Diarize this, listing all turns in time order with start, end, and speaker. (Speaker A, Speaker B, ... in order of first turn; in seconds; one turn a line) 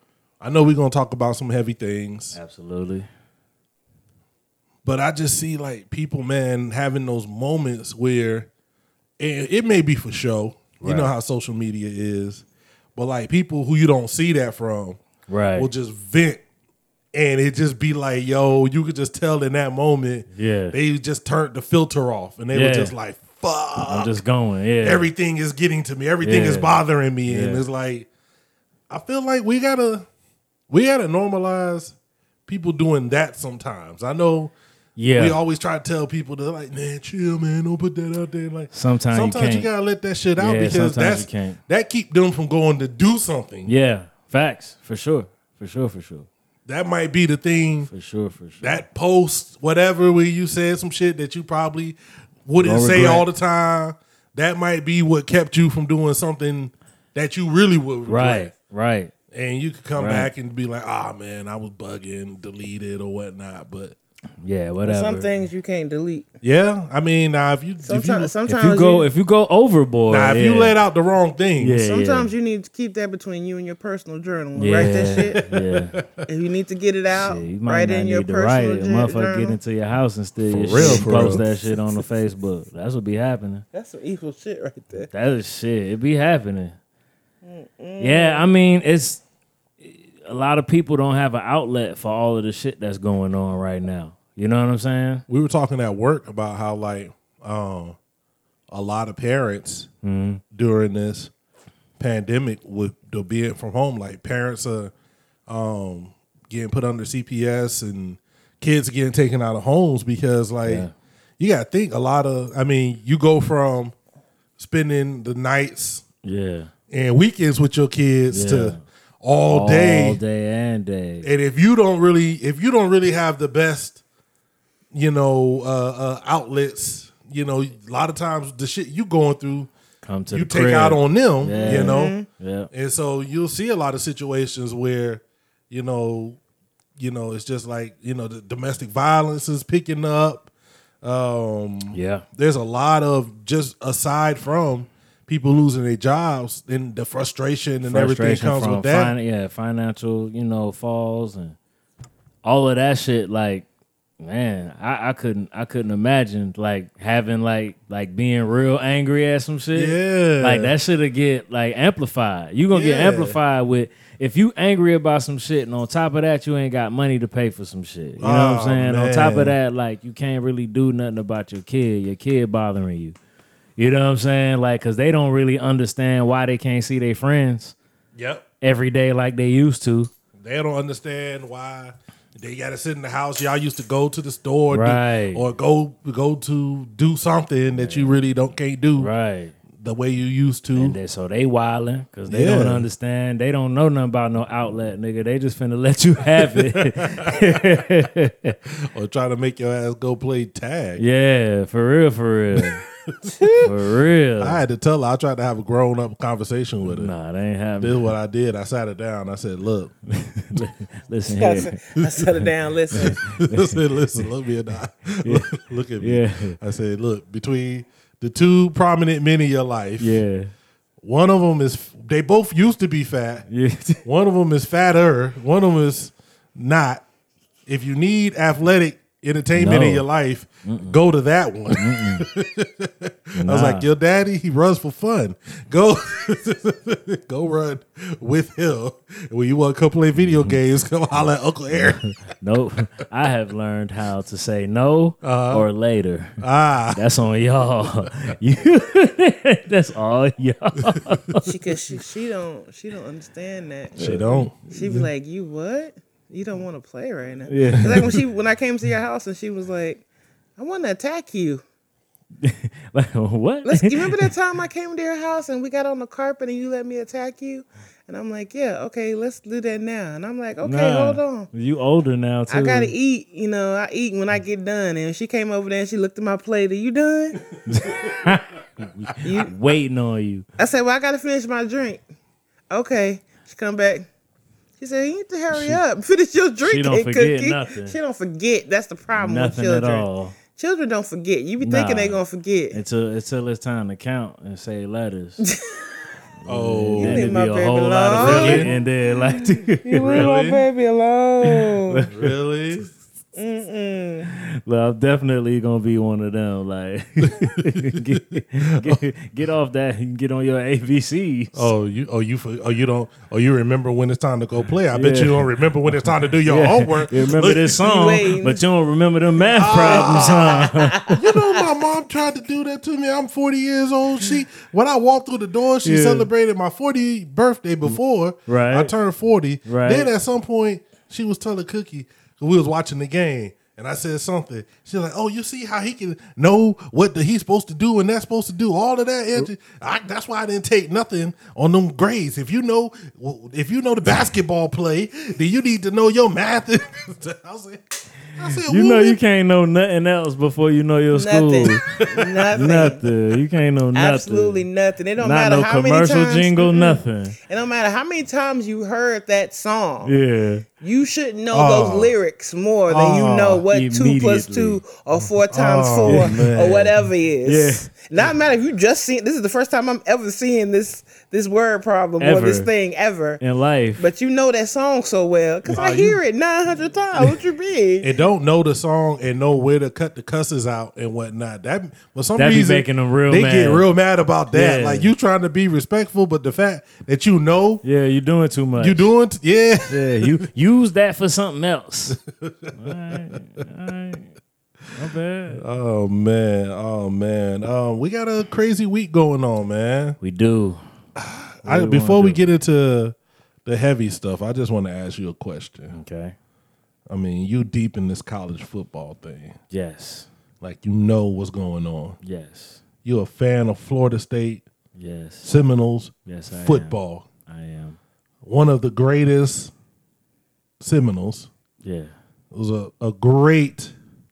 Speaker A: 0.4-2.4
Speaker B: 2.3-3.1
Speaker A: 4.8-8.5
Speaker A: 9.2-12.4
Speaker B: 10.8-11.1
Speaker A: 12.9-15.0
Speaker B: 15.3-15.7
Speaker A: 15.6-16.4
Speaker A: 17.1-24.2
Speaker B: 20.3-20.8
Speaker B: 22.5-22.9
Speaker B: 23.9-25.1
Speaker A: 24.8-28.1
Speaker B: 26.2-26.7
Speaker B: 27.3-27.6
Speaker A: 28.9-30.1
Speaker A: 30.7-31.9
Speaker A: 32.5-34.5
Speaker B: 35.0-35.4
Speaker A: 35.1-43.7
Speaker B: 38.7-39.7
Speaker B: 40.4-41.6
Speaker B: 43.6-46.3
Speaker A: 46.6-47.9
Speaker B: 47.9-48.8
Speaker A: 48.6-58.5
Speaker B: 52.6-53.2
Speaker B: 58.1-59.1
Speaker A: 59.3-64.0
Speaker B: 60.0-60.3
Speaker B: 64.4-65.3
Speaker C: 64.8-66.2
Speaker A: 66.4-68.3
Speaker C: 67.8-69.1
Speaker B: 68.5-70.8
Speaker A: 70.1-71.8
Speaker B: 71.6-72.3
Speaker C: 71.8-75.4
Speaker B: 74.5-76.0
Speaker A: 74.7-76.1
Speaker C: 76.3-79.6
Speaker B: 77.1-83.6
Speaker A: 80.4-81.4
Speaker C: 80.8-81.6
Speaker C: 83.7-85.1
Speaker B: 85.1-86.8
Speaker C: 87.4-88.5
Speaker B: 88.0-89.2
Speaker B: 89.8-95.2
Speaker A: 95.3-98.0
Speaker A: 98.7-99.9
Speaker B: 100.0-100.4
Speaker A: 100.5-101.3
Speaker A: 102.0-104.9
Speaker A: 105.5-110.8
Speaker B: 110.6-110.9
Speaker A: 111.4-113.9
Speaker A: 114.6-116.0
Speaker B: 116.2-116.7
Speaker A: 116.9-120.2
Speaker B: 118.3-118.8
Speaker B: 119.5-121.3
Speaker A: 121.2-124.0
Speaker A: 124.9-129.7
Speaker B: 130.0-132.7
Speaker A: 130.3-132.1
Speaker C: 131.5-132.2
Speaker A: 132.7-136.4
Speaker A: 137.0-140.5
Speaker A: 141.0-149.2
Speaker B: 141.9-142.2
Speaker B: 147.8-151.6
Speaker B: 152.4-153.7
Speaker B: 154.2-173.2
Speaker A: 159.7-160.7
Speaker A: 162.7-163.4
Speaker A: 168.2-169.5
Speaker B: 173.8-177.7
Speaker A: 178.1-178.4
Speaker B: 178.6-180.1
Speaker A: 180.4-189.1
Speaker B: 184.7-185.4
Speaker B: 187.7-188.2
Speaker B: 189.0-189.6
Speaker A: 189.8-191.0
Speaker B: 190.7-198.6
Speaker A: 192.3-192.8
Speaker A: 196.4-197.6
Speaker A: 198.8-201.0
Speaker B: 201.0-202.8
Speaker A: 202.6-203.4
Speaker B: 203.6-204.6
Speaker A: 204.4-207.1
Speaker B: 206.8-208.1
Speaker A: 207.8-209.9
Speaker B: 210.1-211.8
Speaker C: 211.3-213.2
Speaker B: 212.9-214.2
Speaker A: 212.9-220.2
Speaker B: 215.2-216.6
Speaker B: 220.0-220.5
Speaker A: 221.0-223.4
Speaker B: 223.5-224.0
Speaker A: 224.0-227.0
Speaker A: 227.7-242.0
Speaker B: 229.6-230.0
Speaker B: 230.7-231.0
Speaker B: 231.7-232.3
Speaker B: 233.3-233.8
Speaker B: 240.2-240.6
Speaker B: 241.7-246.4
Speaker A: 245.2-245.7
Speaker A: 246.4-247.0
Speaker B: 246.9-251.5
Speaker C: 251.4-254.0
Speaker B: 254.0-254.5
Speaker A: 254.0-254.6
Speaker C: 254.7-260.0
Speaker B: 257.5-258.2
Speaker C: 260.6-261.6
Speaker B: 262.4-264.3
Speaker C: 263.6-271.5
Speaker B: 270.6-272.9
Speaker C: 272.5-277.4
Speaker B: 277.7-280.4
Speaker A: 277.9-278.2
Speaker C: 279.2-279.5
Speaker C: 280.6-282.0
Speaker C: 282.7-284.1
Speaker C: 284.8-292.8
Speaker B: 285.5-285.8
Speaker B: 286.6-287.9
Speaker B: 289.1-290.4
Speaker B: 291.6-292.2
Speaker B: 292.7-295.4
Speaker B: 296.4-300.3
Speaker A: 296.4-297.3
Speaker C: 297.0-302.0
Speaker A: 298.1-298.7
Speaker A: 300.0-300.6
Speaker B: 301.9-302.3
Speaker A: 302.1-302.9
Speaker C: 303.4-304.3
Speaker B: 304.3-311.7
Speaker A: 307.2-308.2
Speaker A: 311.5-317.8
Speaker B: 314.9-315.4
Speaker B: 316.4-321.2
Speaker C: 317.8-318.6
Speaker C: 319.4-321.7
Speaker A: 319.5-347.8
Speaker B: 325.8-326.3
Speaker B: 327.9-328.9
Speaker B: 329.6-330.1
Speaker A: 348.3-349.2
Speaker B: 348.4-351.9
Speaker C: 351.1-353.0
Speaker B: 352.5-354.7
Speaker C: 353.9-360.1
Speaker B: 355.2-357.4
Speaker B: 360.0-360.6
Speaker C: 360.8-373.4
Speaker A: 361.5-362.1
Speaker A: 362.9-363.6
Speaker B: 363.7-364.8
Speaker A: 365.5-366.9
Speaker B: 366.0-367.9
Speaker B: 372.2-372.7
Speaker B: 373.4-374.0
Speaker C: 374.0-378.1
Speaker A: 375.8-376.2
Speaker A: 378.0-387.8
Speaker B: 382.4-383.9
Speaker B: 384.5-385.1
Speaker B: 387.8-389.1
Speaker A: 388.8-390.3
Speaker B: 389.9-392.2
Speaker A: 392.1-393.2
Speaker B: 392.8-394.3
Speaker B: 394.9-395.6
Speaker A: 395.5-400.2
Speaker B: 400.2-400.8
Speaker A: 401.2-403.1
Speaker B: 401.6-402.4
Speaker A: 403.6-405.9
Speaker B: 405.9-406.4
Speaker A: 407.1-409.6
Speaker B: 409.7-410.3
Speaker A: 410.6-412.2
Speaker B: 412.2-412.8
Speaker A: 413.0-414.6
Speaker B: 415.0-415.5
Speaker A: 415.4-417.3
Speaker B: 416.2-418.0
Speaker A: 418.4-419.7
Speaker A: 420.8-421.5
Speaker B: 421.8-422.1
Speaker A: 422.5-423.9